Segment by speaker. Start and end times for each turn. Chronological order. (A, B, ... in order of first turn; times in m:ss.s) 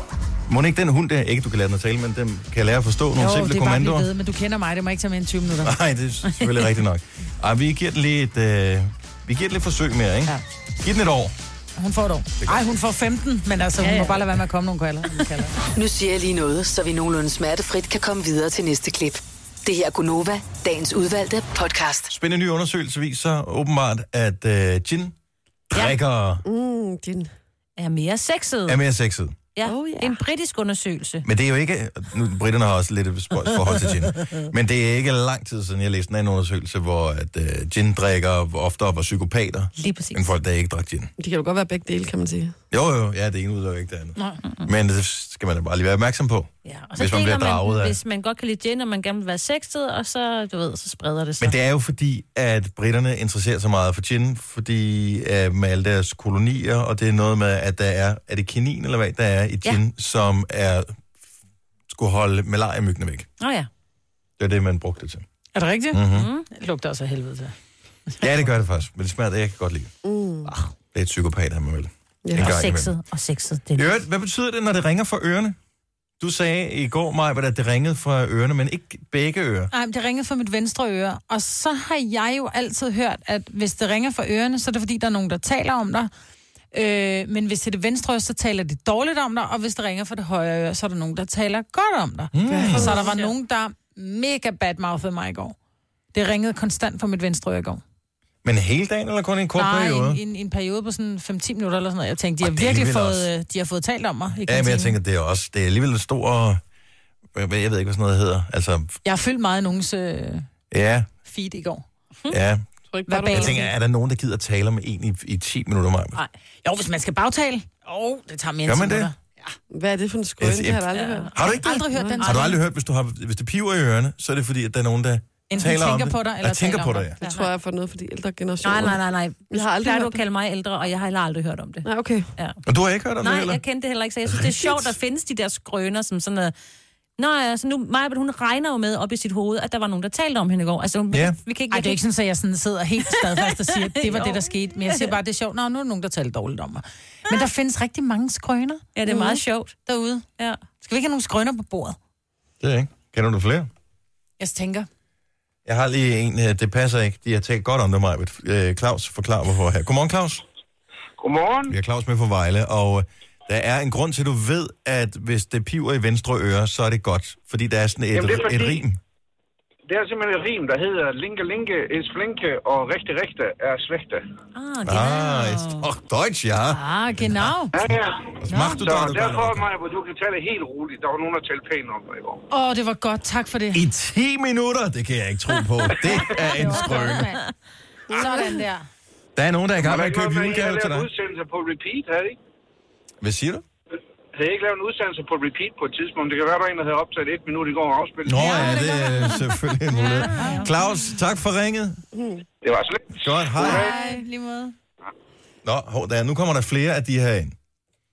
0:00.5-0:04.1 A
0:03.2-0:05.8 B
0:05.6-0:11.4 A
0:06.3-0:06.6 C
0:11.8-0:15.5 B
0:13.8-0:14.2 C
0:15.8-0:22.1 D
0:22.1-0:25.2 A
0:25.7-0:26.4 A
0:26.4-0:27.3 E
0:27.8-0:28.8 C
0:28.7-0:29.4 A
0:29.6-0:31.3 C
0:29.6-0:30.2 E
0:31.2-0:41.1 A
0:39.8-0:40.3 C
0:41.2-0:42.6 E
0:42.7-0:48.0 A
0:46.6-0:51.6 C
0:51.4-1:01.0 A
1:01.9-1:03.3 A
1:03.4-1:03.7 C
1:04.4-1:05.2 A
1:05.6-1:07.5 B
1:05.9-1:06.3 A
1:06.1-1:06.5 C
1:08.2-1:09.9 A
1:10.0-1:10.5 E
1:10.9-1:12.9 A
1:12.2-1:12.5 E
1:12.4-1:14.0 C
1:13.8-1:15.6 A
1:16.2-1:19.7 A
1:19.7-1:26.1 B
1:26.7-1:35.6 B
1:32.3-1:33.0 A
1:32.4-1:33.2 E
1:33.0-1:33.3 C
1:36.1-1:37.8 B
1:38.4-1:40.2 A
1:39.6-1:45.0 B
1:42.4-1:43.3 A
1:44.4-1:46.6 A
1:47.4-1:49.0 A
1:49.0-1:50.5 B
1:50.7-1:51.1 A
1:51.2-1:51.9 B
1:52.3-1:52.7 A
1:52.9-1:53.7 E
1:53.1-1:53.7 B
1:53.2-1:56.2 A
1:56.6-1:59.6 B
1:58.7-1:59.1 A
1:59.7-2:02.2 E
2:00.4-2:07.2 A
2:00.9-2:01.3 C
2:01.6-2:02.6 B
2:05.5-2:07.4 B
2:07.2-2:09.0 E
2:08.6-2:12.6 C
2:09.5-2:10.2 E
2:11.8-2:12.3 E
2:12.6-2:13.6 A
2:13.2-2:16.5 C
2:14.2-2:14.9 A
2:17.2-2:22.0 C
2:21.1-2:21.4 A
2:21.7-2:29.2 B
2:23.1-2:25.2 C
2:29.0-2:29.8 C
2:29.1-2:29.4 E
2:29.9-2:30.2 B
2:30.8-2:32.0 B
2:32.6-2:33.7 A
2:34.4-2:34.9 B
2:35.7-2:40.4 A
2:41.2-2:41.8 F
2:41.7-2:49.0 A
2:48.1-2:48.8 F
2:49.9-2:54.2 F
2:54.6-2:55.9 C
2:54.8-2:59.7 A
2:56.7-2:57.7 B
2:57.7-3:02.4 F
2:58.5-2:58.8 C
3:02.5-3:03.8 B
3:03.7-3:07.4 A
3:06.1-3:07.5 B
3:08.1-3:08.5 E
3:08.1-3:08.9 B
3:09.4-3:11.1 A
3:09.8-3:12.4 F
3:13.2-3:13.6 A
3:14.4-3:18.8 F
3:18.2-3:22.0 A
3:18.4-3:19.5 B
3:20.0-3:20.7 C
3:20.2-3:20.7 B
3:22.1-3:22.4 E
3:22.6-3:23.9 F
3:23.2-3:23.9 A
3:23.6-3:24.7 B
3:23.7-3:24.2 E
3:25.6-3:27.6 A